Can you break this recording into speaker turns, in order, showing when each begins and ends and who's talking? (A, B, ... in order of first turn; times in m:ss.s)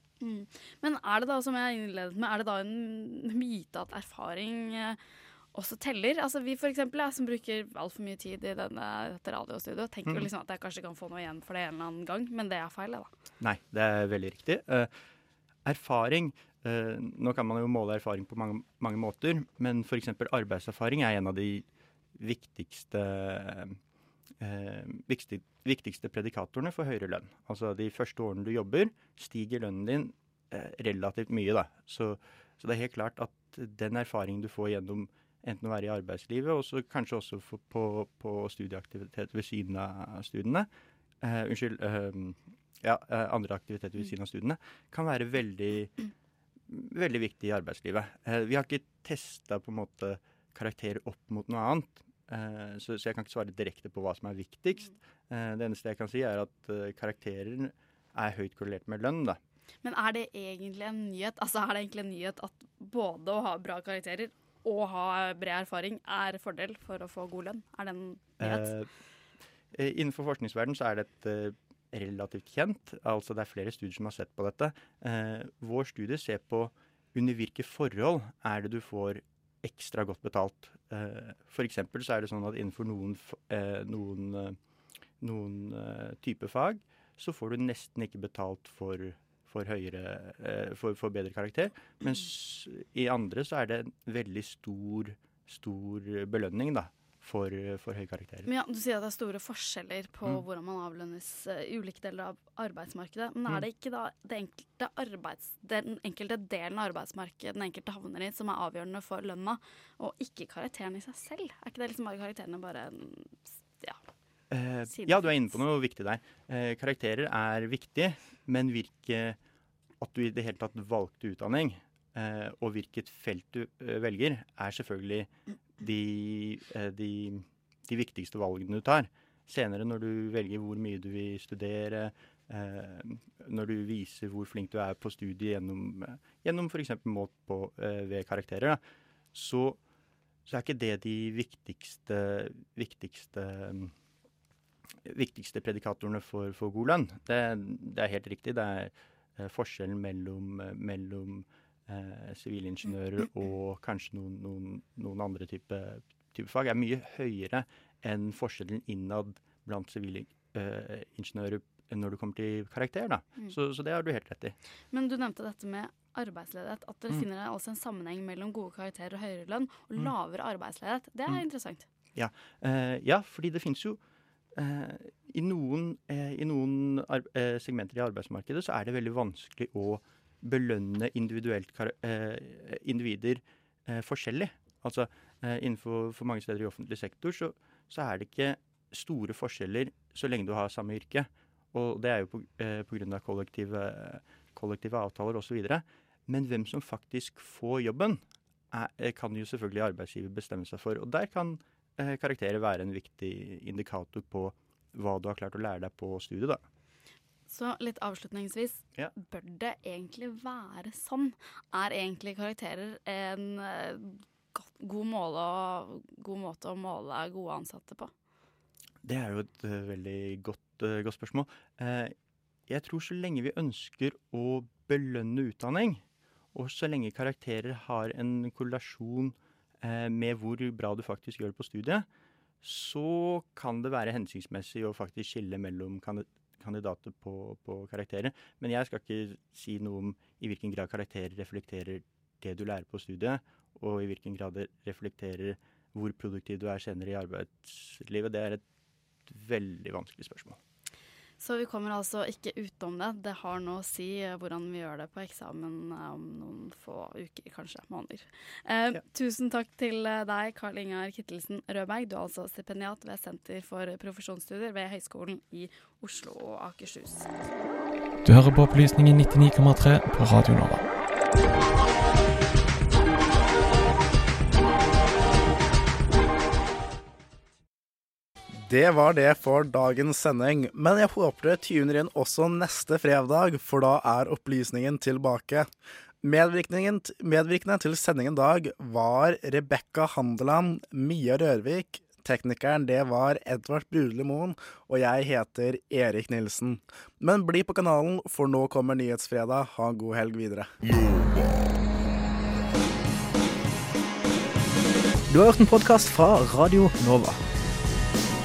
0:00.2-0:05.0 A
0:05.5-0:13.1 A
0:13.4-0:14.9 B
0:15.7-0:23.8 B
0:24.4-0:40.7 B
0:41.2-0:45.9 B
0:46.7-0:59.4 B
0:59.8-1:08.7 A
1:08.4-1:08.9 B
1:09.7-1:24.6 B
1:25.2-1:38.5 B
1:38.4-1:54.0 A
1:54.5-1:59.4 B
1:54.9-1:55.4 A
2:00.0-2:18.8 B
2:19.3-2:19.8 B
2:20.4-2:23.9 B
2:25.0-2:44.6 B
2:44.9-2:51.8 A
2:52.1-2:54.0 B
2:54.6-3:18.2 B
3:18.7-3:26.6 B
3:27.5-3:38.1 A
3:39.0-3:42.1 B
3:42.7-3:52.1 B
3:52.6-4:08.6 B
4:09.3-4:10.6 B
4:11.4-4:27.3 A
4:28.2-4:30.9 C
4:38.7-4:45.7 D
4:46.2-5:00.7 D
5:05.3-5:07.4 E